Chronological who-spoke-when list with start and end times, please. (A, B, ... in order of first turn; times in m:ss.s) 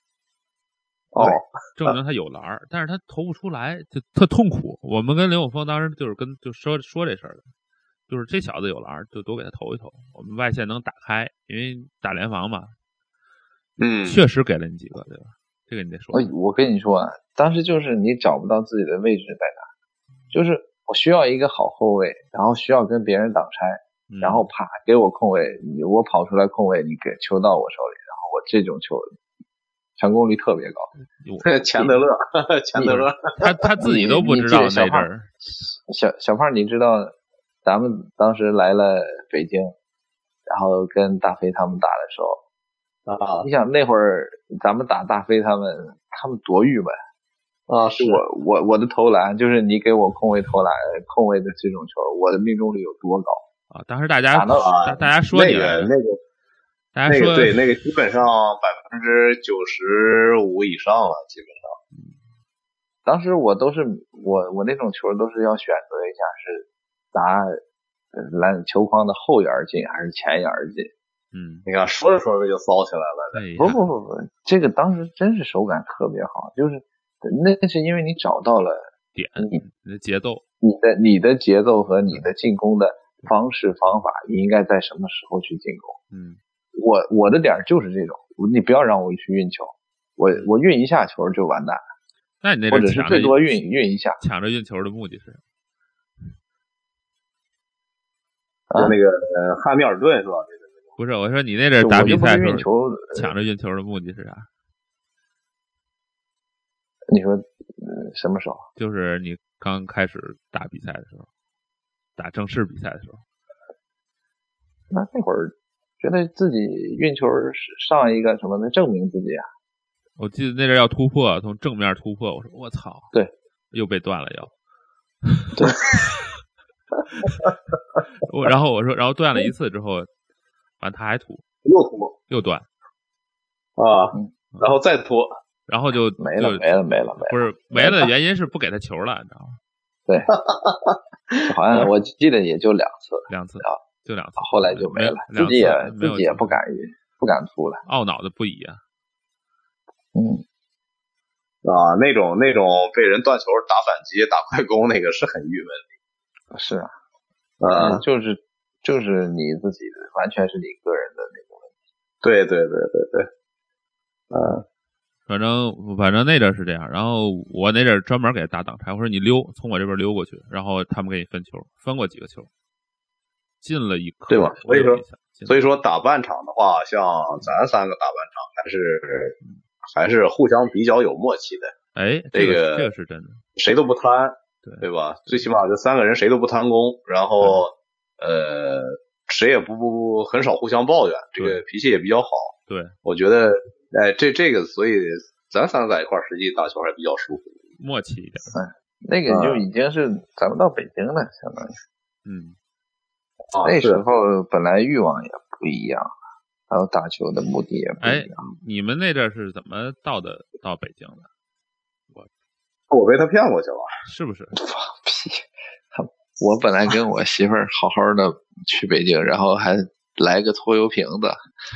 0:01.1-0:01.9 A
0:01.8-0:07.5 B
0:08.1-0:12.7 B
0:13.8-0:14.2 A
0:14.0-0:16.3 B
0:16.1-0:19.7 C
0:20.3-0:29.1 C
0:24.1-0:24.5 B
0:30.0-0:30.9 C
0:31.2-0:32.0 B
0:31.4-0:33.5 A
0:32.7-0:33.0 C
0:32.8-0:35.3 B
0:33.8-0:37.1 C
0:37.6-0:39.7 C
0:40.5-0:42.4 C
0:43.1-0:43.5 A
0:43.4-0:46.9 C
0:47.7-0:48.2 A
0:48.0-0:53.4 C
0:53.7-0:55.9 B
0:54.3-0:54.8 C
0:54.5-0:56.2 A
0:57.0-0:57.7 B
0:57.1-1:01.8 A
1:03.1-1:07.6 C
1:08.1-1:10.9 C
1:11.3-1:11.7 B
1:11.7-1:13.4 A
1:13.3-1:13.8 B
1:13.6-1:18.9 C
1:19.2-1:20.4 B
1:20.6-1:26.0 C
1:26.1-1:26.4 B
1:26.7-1:31.8 C
1:32.4-1:33.4 B
1:32.7-1:34.2 C
1:34.2-1:35.4 B
1:38.7-1:39.0 C
1:38.7-1:40.8 A
1:41.0-1:44.5 B
1:41.8-1:43.3 C
1:47.1-1:48.6 C
1:48.8-1:51.3 B
1:52.2-1:53.2 B
1:54.9-1:59.4 C
2:00.2-2:03.1 B
2:03.7-2:04.5 B
2:05.2-2:06.2 B
2:05.5-2:05.8 C
2:08.2-2:10.1 B
2:10.8-2:11.4 B
2:11.6-2:12.1 A
2:12.3-2:12.6 B
2:13.8-2:15.3 A
2:15.7-2:19.6 B
2:16.2-2:18.1 C
2:20.1-2:20.3 C
2:20.4-2:21.0 A
2:21.4-2:23.8 C
2:23.3-2:26.6 B
2:24.4-2:27.8 C
2:27.9-2:28.8 B
2:30.1-2:30.4 C
2:31.6-2:35.8 A
2:36.5-2:36.9 C
2:37.6-2:38.0 A
2:37.7-2:41.7 C
2:42.2-2:43.3 A
2:44.3-2:44.6 A
2:45.3-2:52.5 B
2:53.6-2:55.6 B
2:54.3-2:59.4 A
3:00.0-3:01.7 A
3:02.0-3:03.4 B
3:02.3-3:02.9 A
3:03.6-3:12.5 A
3:04.6-3:05.5 B
3:12.7-3:13.0 B
3:13.0-3:17.5 A
3:17.8-3:18.5 B
3:18.5-3:21.7 C
3:19.3-3:19.6 A
3:22.2-3:22.6 B
3:23.5-3:24.0 A
3:23.6-3:26.1 C
3:26.7-3:28.4 C
3:28.0-3:31.3 B
3:32.9-3:33.9 A
3:34.0-3:34.6 B
3:34.6-3:41.4 C